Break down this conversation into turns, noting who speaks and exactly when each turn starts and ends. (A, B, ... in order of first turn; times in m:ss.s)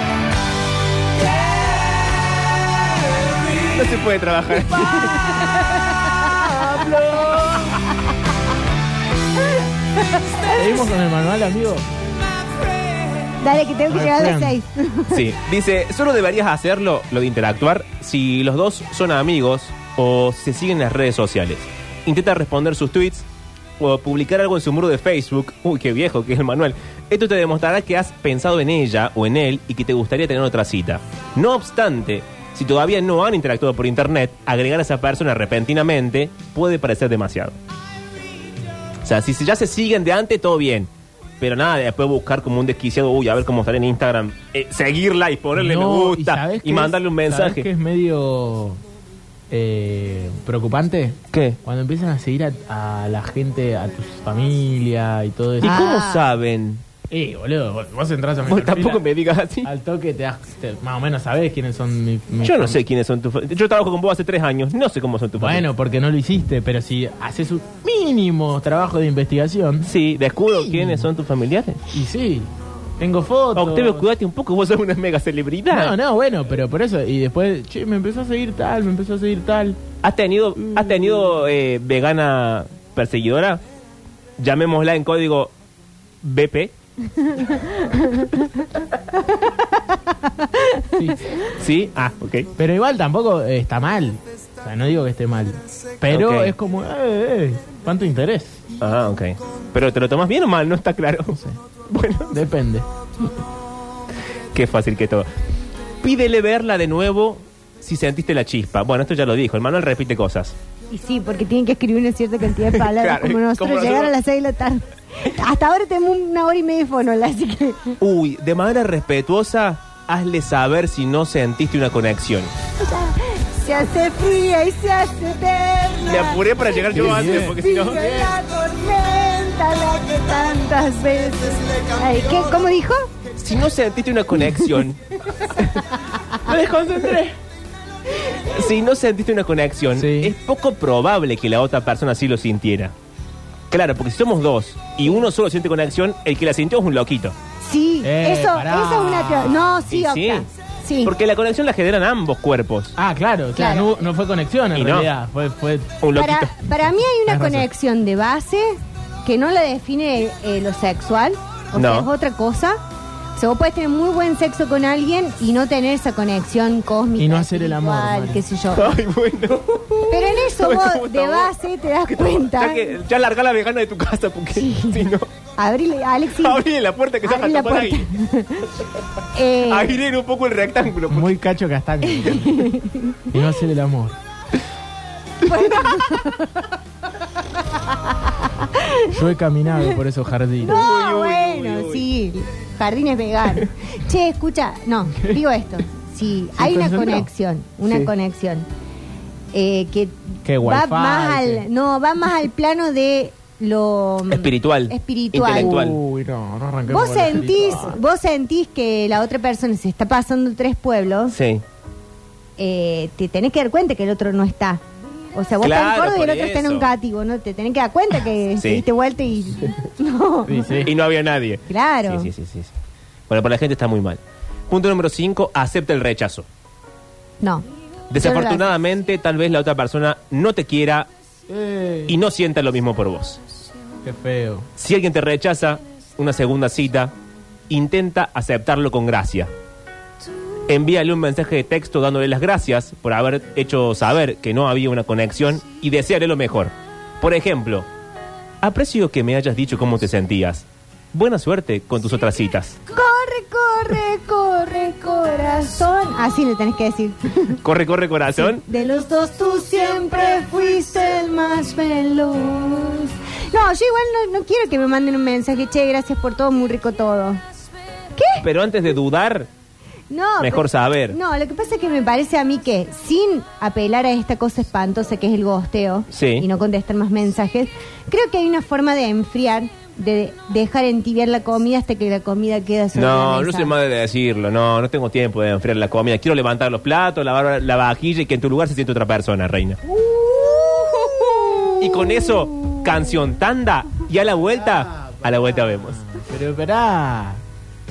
0:03.6-0:05.2 A
0:04.7-0:06.8 B
0:06.4-0:07.5 C
0:10.0-0:10.6 B
0:10.5-0:11.8 C
0:13.4-0:15.2 B
0:13.9-0:14.6 C
0:15.1-0:23.2 A
0:23.8-0:37.6 A
0:39.0-0:40.9 A
0:41.4-0:47.7 A
0:45.5-0:48.8 C
0:49.5-0:55.8 C
0:51.3-0:51.6 A
0:55.6-0:56.8 A
0:55.6-0:56.2 B
0:57.1-0:59.0 C
0:58.5-0:59.7 A
0:59.6-1:02.8 C
1:02.4-1:05.6 A
1:05.4-1:09.9 C
1:09.8-1:11.8 A
1:10.5-1:11.1 C
1:11.9-1:14.1 C
1:13.5-1:16.0 A
1:15.7-1:19.8 C
1:20.0-1:23.6 A
1:24.4-1:25.5 A
1:26.2-1:26.7 A
1:27.8-1:28.3 B
1:30.4-1:30.8 B
1:31.5-1:32.5 A
1:32.6-1:38.6 C
1:36.1-1:36.5 A
1:38.8-1:42.4 A
1:42.3-1:42.9 C
1:44.5-1:45.3 A
1:46.0-1:50.5 A
1:50.9-1:58.0 B
1:52.7-1:54.1 A
1:58.0-2:02.5 A
2:02.8-2:13.1 B
2:06.0-2:08.0 A
2:06.9-2:07.6 C
2:13.4-2:15.8 A
2:16.4-2:17.4 C
2:18.3-2:22.9 A
2:19.9-2:20.3 C
2:23.7-2:27.3 A
2:27.6-2:31.1 B
2:28.0-2:29.6 C
2:29.9-2:30.5 A
2:31.0-2:32.9 A
2:33.0-2:36.0 C
2:33.6-2:33.9 B
2:34.7-2:35.1 A
2:36.0-2:36.6 A
2:36.1-2:42.8 B
2:37.3-2:37.7 C
2:41.7-2:42.1 A
2:43.3-2:49.0 B
2:47.2-2:48.4 C
2:48.7-2:55.3 A
2:50.1-2:52.9 B
2:54.6-2:56.6 B
2:56.4-2:58.1 A
2:57.2-2:58.7 B
2:59.3-2:59.9 B
2:59.7-3:01.3 A
3:01.1-3:02.7 C
3:02.3-3:03.2 B
3:03.3-3:04.2 C
3:05.4-3:06.5 B
3:08.4-3:09.1 B
3:09.1-3:10.8 C
3:10.6-3:18.7 B
3:10.6-3:12.1 A
3:16.6-3:17.3 C
3:19.5-3:25.8 B
3:20.4-3:21.6 C
3:24.3-3:26.0 A
3:25.5-3:28.0 C
3:26.9-3:31.4 B
3:31.3-3:31.6 A
3:32.6-3:34.8 B
3:35.3-3:40.9 B
3:35.6-3:36.9 A
3:38.6-3:38.8 A
3:40.4-3:40.9 C
3:40.8-3:42.7 A
3:41.7-3:42.3 B
3:43.3-3:46.5 A
3:47.4-3:47.6 B
3:48.1-3:51.1 A
3:48.2-3:48.6 B
3:51.5-3:52.2 C
3:52.1-3:53.4 A
3:54.0-3:54.7 C
3:54.8-3:57.1 A
3:57.7-3:59.5 A
4:00.7-4:07.9 A
4:08.6-4:12.8 A
4:12.9-4:17.6 B
4:17.5-4:18.6 A
4:18.4-4:27.4 B
4:28.1-4:28.4 B
4:28.4-4:29.5 A
4:30.1-4:43.7 B
4:30.4-4:31.2 A
4:36.1-4:36.4 A
4:42.9-4:49.8 A
4:49.9-4:52.7 B
4:51.8-4:56.0 A
4:54.6-4:57.4 C